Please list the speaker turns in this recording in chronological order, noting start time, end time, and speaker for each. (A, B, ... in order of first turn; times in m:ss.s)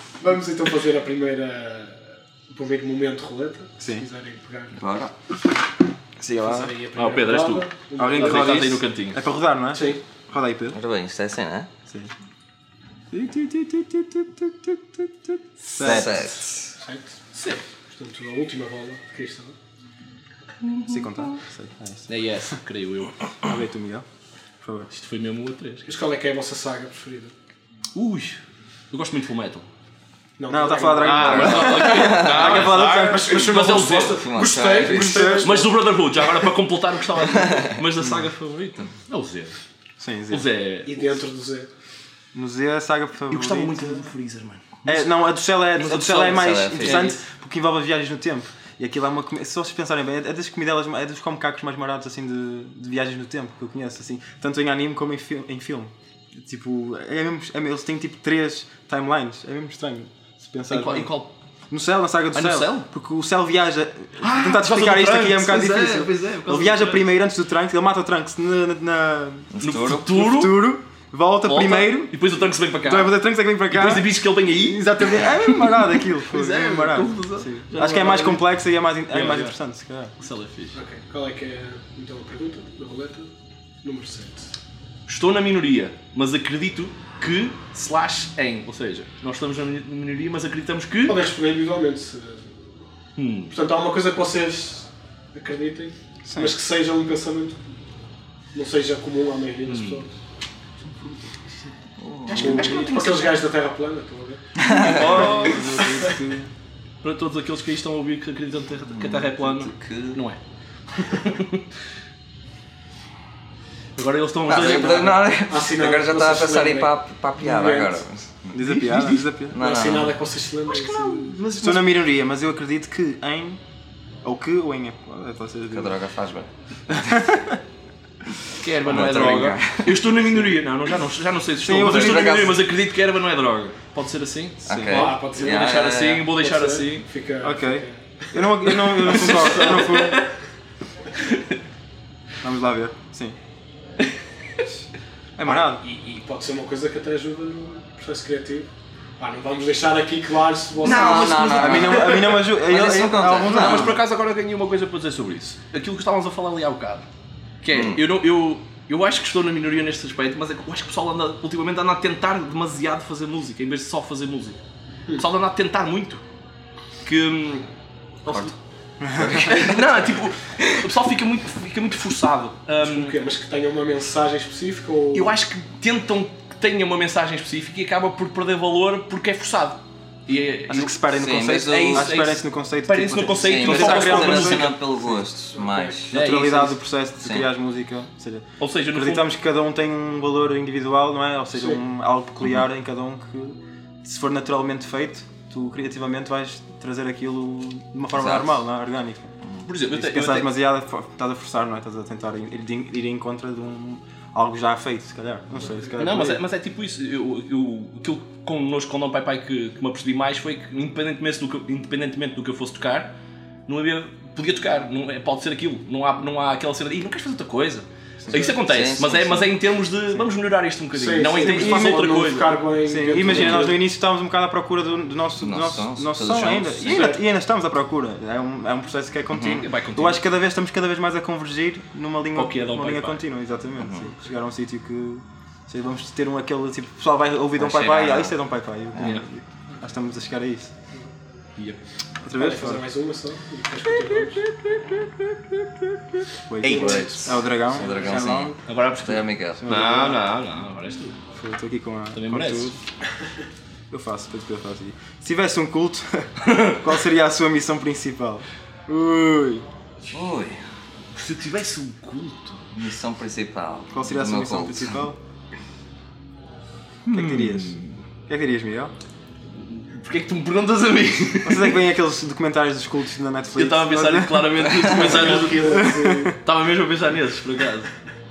0:00.2-0:04.8 A
0:04.8-0:05.1 B
0:06.2-0:06.7 C
0:06.4-0:08.8 A
0:07.0-0:09.2 D
0:08.0-0:10.8 C
0:09.7-0:10.0 A
0:10.7-0:11.7 B
0:13.1-0:16.2 C
0:15.8-0:16.7 B
0:16.8-0:17.1 A
0:17.3-0:17.6 D
0:17.9-0:19.6 A
0:20.9-0:22.1 C
0:22.1-0:23.2 D
0:23.4-0:24.1 C
0:24.6-0:24.9 C
0:24.9-0:25.9 D
0:25.8-0:27.3 A
0:28.0-0:28.4 D
0:28.9-0:29.7 D
0:30.4-0:35.8 A
0:30.5-0:33.5 C
0:31.0-0:34.2 D
0:31.3-0:32.7 B
0:34.0-0:35.4 B
0:34.9-0:35.5 C
0:35.3-0:39.6 D
0:37.4-0:37.8 B
0:40.0-0:40.5 C
0:40.3-0:41.1 D
0:40.8-0:41.7 A
0:42.3-0:44.0 C
0:43.3-0:45.1 D
0:44.9-1:01.1 C
0:45.8-0:47.2 D
0:45.9-0:47.1 B
1:00.7-1:01.3 D
1:01.7-1:09.5 C
1:02.3-1:02.9 D
1:04.2-1:07.1 D
1:09.5-1:10.4 B
1:09.6-1:10.7 D
1:10.1-1:12.1 C
1:11.5-1:18.5 D
1:12.8-1:20.1 C
1:19.1-1:19.6 D
1:20.2-1:20.8 D
1:20.7-1:24.5 A
1:25.1-1:31.2 D
1:31.1-1:32.6 A
1:33.2-1:33.5 D
1:33.5-1:37.6 A
1:36.2-1:36.6 C
1:38.5-1:40.1 A
1:39.7-1:40.0 D
1:42.0-1:42.8 B
1:42.3-1:43.4 D
1:42.3-1:44.4 A
1:44.6-1:45.4 B
1:44.6-1:46.1 D
1:45.0-1:46.5 C
1:45.7-1:46.2 A
1:47.0-1:50.4 D
1:48.9-1:50.2 B
1:51.0-1:51.6 D
1:54.0-1:55.3 D
1:54.5-1:58.5 B
1:55.5-1:58.0 A
1:58.5-1:59.6 C
1:58.6-1:59.3 D
1:59.5-2:00.2 B
1:59.5-2:01.4 A
2:00.7-2:01.9 D
2:01.6-2:03.6 C
2:04.2-2:05.9 C
2:05.7-2:06.5 B
2:06.9-2:07.6 C
2:08.6-2:17.1 D
2:08.8-2:10.0 B
2:11.6-2:12.5 C
2:11.8-2:12.6 B
2:14.6-2:15.1 C
2:14.7-2:16.3 B
2:14.9-2:15.8 A
2:16.4-2:19.8 A
2:17.4-2:20.3 C
2:18.9-2:20.3 D
2:21.2-2:21.6 D
2:22.4-2:23.4 C
2:25.4-2:25.8 C
2:25.4-2:31.6 A
2:30.8-2:32.4 D
2:30.8-2:34.0 B
2:31.5-2:34.0 C
2:33.4-2:37.1 D
2:37.6-2:44.6 D
2:37.7-2:38.0 B
2:45.2-2:46.2 D
2:47.0-2:47.7 D
2:48.2-2:48.5 D
2:48.3-2:48.5 B
2:49.0-2:49.7 C
2:49.1-2:50.1 B
2:49.4-2:53.1 D
2:52.8-2:55.3 A
2:55.1-3:04.8 D
3:00.7-3:04.9 C
3:01.1-3:02.1 B
3:03.3-3:06.4 B
3:05.5-3:06.0 A
3:06.1-3:06.8 D
3:06.1-3:19.3 C
3:08.6-3:09.3 D
3:18.2-3:18.6 B
3:19.7-3:20.6 D
3:19.9-3:26.4 C
3:26.0-3:33.1 D
3:33.7-3:42.6 D
3:38.4-3:39.5 B
3:41.0-3:43.8 A
3:41.4-3:42.2 C
3:42.8-4:00.7 C
3:43.3-3:43.6 D
3:45.4-3:47.2 B
3:46.8-3:47.2 D
3:49.3-3:49.6 B
3:49.4-3:50.2 D
3:52.4-3:53.2 D
3:53.8-3:54.1 B
3:57.6-3:58.3 B
3:59.0-3:59.3 D
4:02.2-4:02.8 C
4:02.4-4:04.5 A
4:04.0-4:08.6 C
4:06.6-4:09.6 B
4:06.7-4:07.2 D
4:06.7-4:07.3 A
4:08.7-4:11.2 D
4:09.6-4:10.2 C
4:11.4-4:12.8 C
4:12.2-4:12.8 D
4:13.9-4:19.6 C
4:20.1-4:20.6 B
4:21.2-4:22.6 D
4:22.7-4:25.0 B
4:23.9-4:25.2 C
4:27.1-4:28.0 D
4:27.1-4:28.9 C
4:29.6-4:31.8 D
4:31.4-4:36.4 C
4:33.6-4:35.9 D
4:35.0-4:36.4 A
4:36.4-4:37.9 D